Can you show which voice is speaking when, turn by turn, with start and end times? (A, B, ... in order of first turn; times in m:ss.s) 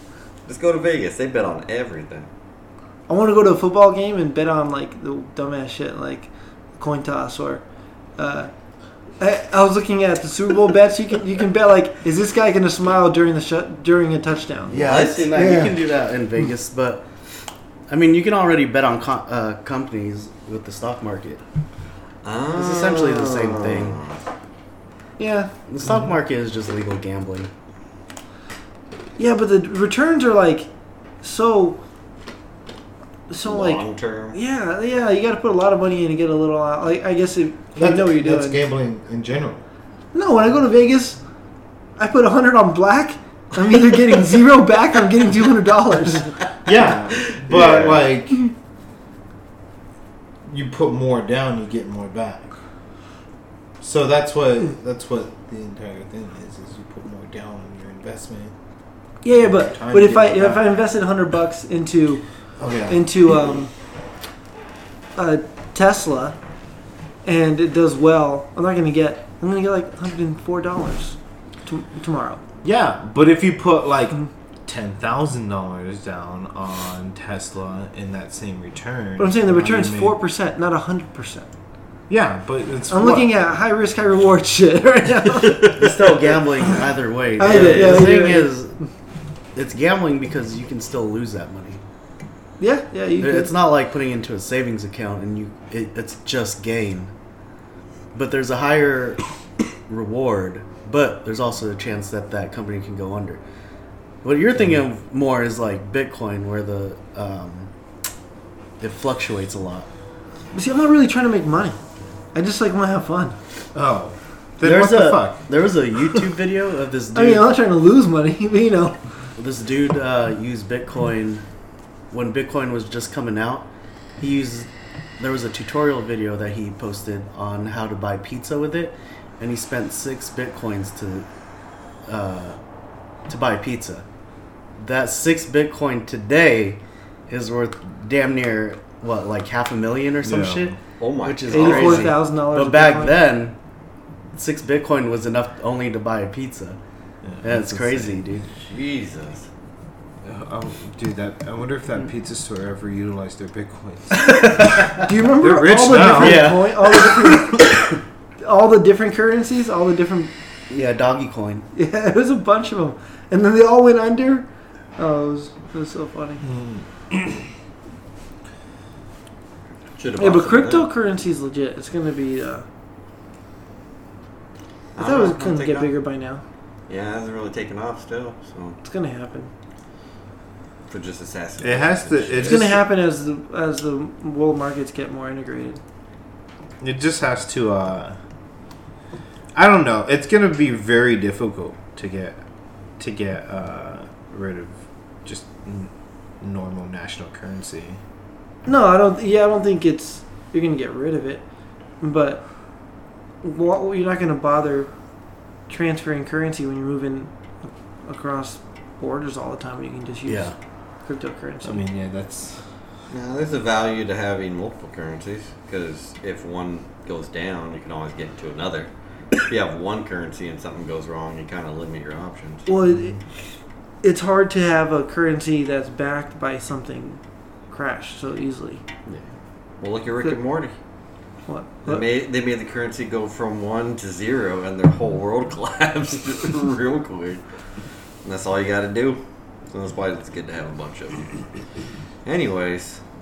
0:00.5-0:02.3 A
0:03.1-0:07.6 B
0:08.2-0:08.5 B
0:09.2-0:15.8 B
0:14.7-0:15.4 A
0:14.7-0:17.0 C
0:17.9-0:21.4 C
0:22.2-0:24.2 A
0:22.5-0:24.0 C
0:25.2-0:25.5 B
0:25.5-0:27.5 C
0:29.2-0:30.7 B
0:31.2-0:31.8 B
0:33.3-0:38.6 B
0:33.5-0:34.4 A
0:37.8-0:39.6 D
0:40.1-0:41.2 B
0:42.0-0:46.4 B
0:46.6-0:48.4 D
0:47.2-0:48.1 A
0:50.5-0:52.6 D
0:53.8-0:58.5 D
0:59.2-1:02.2 B
0:59.4-1:00.7 D
1:02.6-1:03.3 D
1:02.9-1:03.7 B
1:05.2-1:06.4 B
1:07.2-1:12.4 B
1:12.6-1:20.2 D
1:19.2-1:21.5 B
1:22.1-1:23.3 D
1:22.9-1:25.7 B
1:25.4-1:26.8 A
1:25.6-1:28.7 C
1:27.4-1:28.5 B
1:27.4-1:28.2 A
1:29.6-1:31.8 C
1:32.6-1:33.5 B
1:33.2-1:37.1 C
1:38.1-1:39.2 C
1:39.9-1:43.4 C
1:44.2-1:47.7 C
1:48.8-1:49.9 C
1:50.5-1:51.8 B
1:52.3-1:53.4 B
1:53.7-1:55.4 D
1:54.6-1:57.5 C
1:57.2-1:59.0 B
1:59.4-2:01.4 C
2:02.1-2:03.7 C
2:04.2-2:04.7 C
2:05.2-2:11.3 C
2:12.1-2:12.6 C
2:13.3-2:14.0 C
2:14.8-2:23.6 C
2:20.2-2:20.8 D
2:21.0-2:22.1 A
2:21.5-2:23.2 B
2:24.4-2:26.8 C
2:27.2-2:28.2 D
2:27.4-2:28.5 C
2:28.6-2:29.5 A
2:30.2-2:34.6 D
2:34.2-2:34.9 C
2:35.0-2:37.8 B
2:35.4-2:36.6 D
2:36.1-2:37.3 C
2:38.4-2:40.3 B
2:40.7-2:41.7 C
2:41.7-2:46.4 B
2:46.4-2:47.5 D
2:50.0-2:50.9 A
2:50.2-2:52.7 B
2:55.0-2:55.9 A
2:55.0-2:56.4 B
2:56.9-2:58.8 A
2:58.8-2:59.5 B
3:00.9-3:02.8 A
3:01.6-3:02.8 D
3:02.4-3:05.8 B
3:06.8-3:08.2 D
3:09.5-3:12.4 D
3:13.0-3:18.0 D
3:18.7-3:21.4 B
3:22.0-3:22.4 B
3:23.4-3:24.9 B
3:25.7-3:30.5 B
3:30.3-3:30.6 C
3:31.0-3:31.8 B
3:31.6-3:32.6 D
3:33.1-3:38.9 A
3:39.4-3:42.7 A
3:42.7-3:43.2 B
3:44.0-3:48.8 B
3:49.8-3:50.8 A
3:51.5-3:52.1 B
3:51.8-3:57.4 A
3:58.2-3:59.2 A
3:59.7-4:01.4 A
4:02.2-4:03.0 A